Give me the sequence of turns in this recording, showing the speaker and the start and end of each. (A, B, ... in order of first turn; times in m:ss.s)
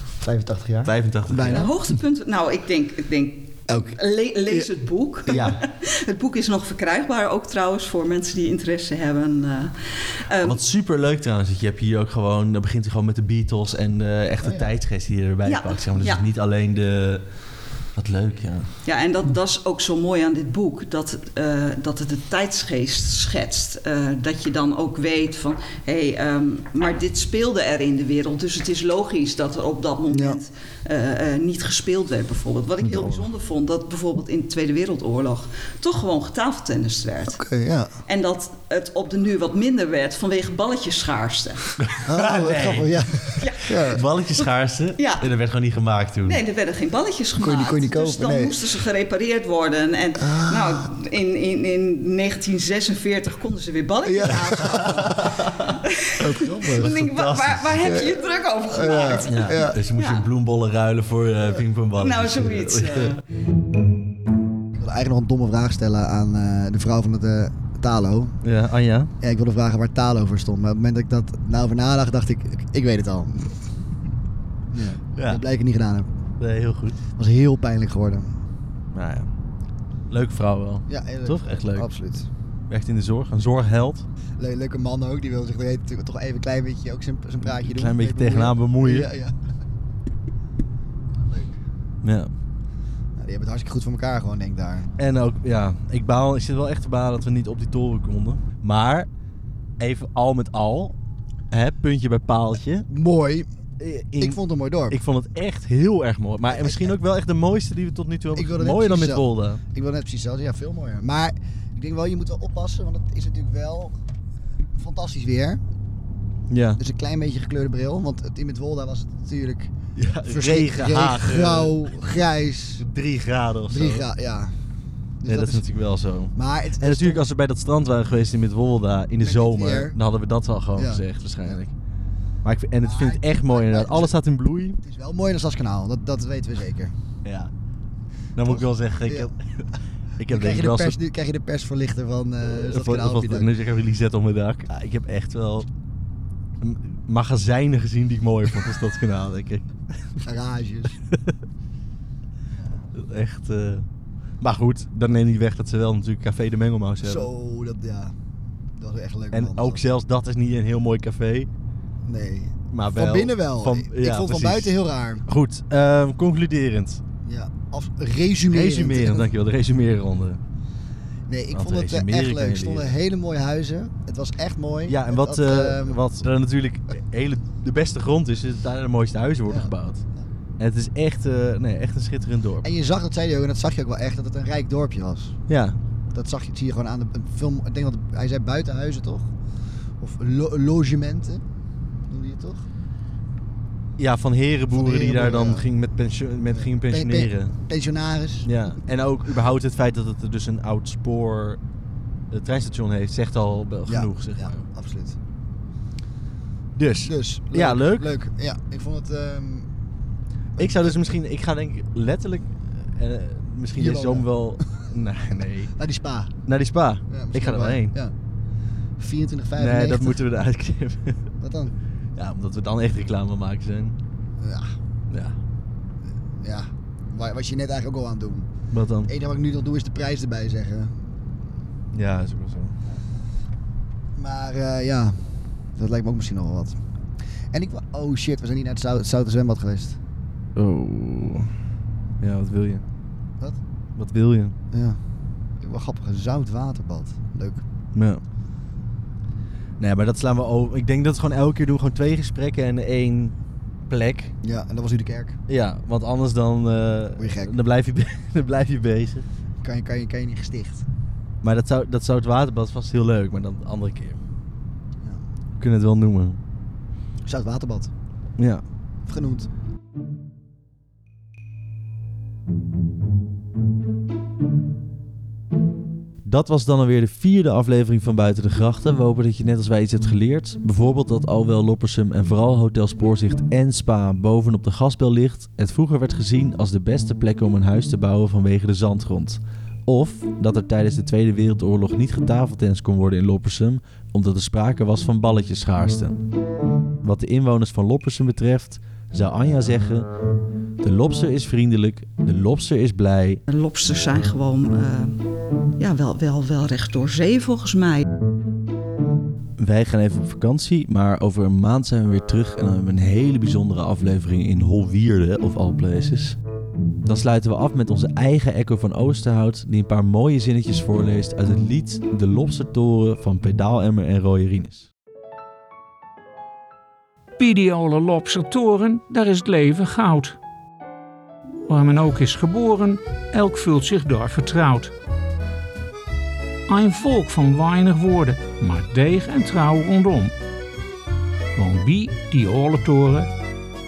0:00.2-0:01.7 A
0:00.8-0:01.7 B
0:01.4-0:09.7 C
0:03.7-0:04.0 A
0:05.3-0:05.6 B
0:10.3-0:10.6 C
0:10.4-0:18.7 B
0:14.4-0:14.7 A
0:15.4-0:16.2 C
0:18.8-0:37.4 C
0:30.1-0:30.4 A
0:37.3-0:37.9 A
0:38.0-0:41.7 C
0:41.8-0:46.4 B
0:42.0-0:44.0 A
0:43.4-0:43.7 C
0:45.0-0:45.3 C
0:46.2-0:55.3 C
0:47.4-0:48.6 A
0:50.2-0:50.9 A
0:54.0-0:55.4 A
0:55.1-0:55.6 B
0:56.0-1:00.2 C
0:56.1-0:57.0 A
0:56.8-0:57.8 B
0:57.8-0:59.8 A
0:59.3-1:03.2 B
1:02.0-1:03.2 C
1:04.7-1:08.4 A
1:08.4-1:09.1 B
1:09.2-1:13.6 A
1:14.7-1:16.1 A
1:15.2-1:15.4 B
1:16.4-1:17.0 B
1:17.2-1:18.3 A
1:18.9-1:19.3 B
1:20.1-1:21.9 B
1:20.9-1:22.3 A
1:22.7-1:24.0 B
1:24.4-1:29.4 A
1:27.6-1:29.1 B
1:31.1-1:31.6 A
1:32.0-1:32.3 B
1:33.2-1:34.9 A
1:35.0-1:39.1 B
1:39.8-1:40.9 B
1:41.5-1:42.9 B
1:42.9-1:43.5 A
1:43.8-1:49.6 B
1:44.2-1:45.0 A
1:46.5-1:47.0 A
1:48.3-1:53.9 A
1:54.7-1:55.6 A
1:56.5-1:56.8 B
1:56.8-1:59.7 A
2:00.0-2:02.0 B
2:00.2-2:02.9 A
2:02.8-2:04.0 B
2:03.7-2:04.5 A
2:05.2-2:05.6 A
2:05.2-2:11.7 B
2:06.4-2:07.2 A
2:09.2-2:10.0 A
2:10.7-2:11.0 A
2:12.4-2:14.8 B
2:12.8-2:14.1 A
2:14.8-2:16.9 A
2:17.2-2:17.5 B
2:18.4-2:19.4 B
2:18.4-2:19.3 A
2:20.2-2:21.0 B
2:20.3-2:23.5 A
2:22.5-2:25.7 B
2:26.6-2:30.2 B
2:30.2-2:31.0 A
2:32.6-2:32.8 A
2:32.9-2:33.9 B
2:34.4-2:37.3 B
2:37.0-2:38.2 A
2:38.7-2:39.8 A
2:39.3-2:41.5 B
2:42.0-2:45.2 A
2:42.7-2:44.8 B
2:45.3-2:47.0 B
2:47.2-2:49.3 A
2:48.5-2:50.4 B
2:51.3-2:56.0 A
2:51.5-2:52.9 B
2:54.9-3:00.0 B
2:59.5-3:00.2 A
3:00.6-3:02.7 B
3:02.6-3:05.4 A
3:05.5-3:05.8 B
3:06.1-3:09.3 A
3:10.0-3:11.4 A
3:12.1-3:12.6 A
3:14.0-3:17.6 B
3:14.7-3:15.7 A
3:16.5-3:18.5 A
3:18.4-3:21.6 B
3:22.3-3:24.6 B
3:23.9-3:25.2 A
3:26.8-3:28.1 B
3:27.0-3:29.7 A
3:30.6-3:31.1 A
3:30.6-3:35.7 B
3:33.8-3:34.6 A
3:35.8-3:36.3 A
3:36.5-3:38.0 B
3:37.1-3:38.1 A
3:39.0-3:40.2 A
3:39.6-3:41.2 B
3:41.4-3:41.8 A
3:42.2-3:44.0 B
3:44.4-3:44.7 A
3:46.3-3:48.5 A
3:48.7-3:49.1 B
3:49.0-3:51.0 A
3:51.9-3:52.8 B
3:54.2-3:56.8 A
3:57.5-4:00.0 A
4:00.6-4:01.5 B
4:02.2-4:02.8 B
4:04.0-4:04.6 B
4:04.7-4:05.0 A
4:05.6-4:07.6 A
4:07.9-4:08.2 B
4:09.8-4:13.3 B
4:13.9-4:14.3 B
4:14.4-4:15.4 A
4:15.5-4:19.2 B
4:17.2-4:17.5 A
4:19.6-4:20.8 A
4:21.4-4:24.2 B
4:25.6-4:26.4 B
4:27.2-4:27.9 A
4:28.4-4:28.6 B
4:29.1-4:29.5 A
4:36.2-4:56.2 B
4:57.0-5:00.1 B
5:00.8-5:03.4 B
5:03.5-5:05.2 C
5:05.8-5:08.1 C
5:09.6-5:16.4 B
5:17.0-5:24.9 B
5:27.4-5:30.4 D
5:31.7-5:34.9 D
5:36.7-5:40.3 D
5:41.5-5:43.3 D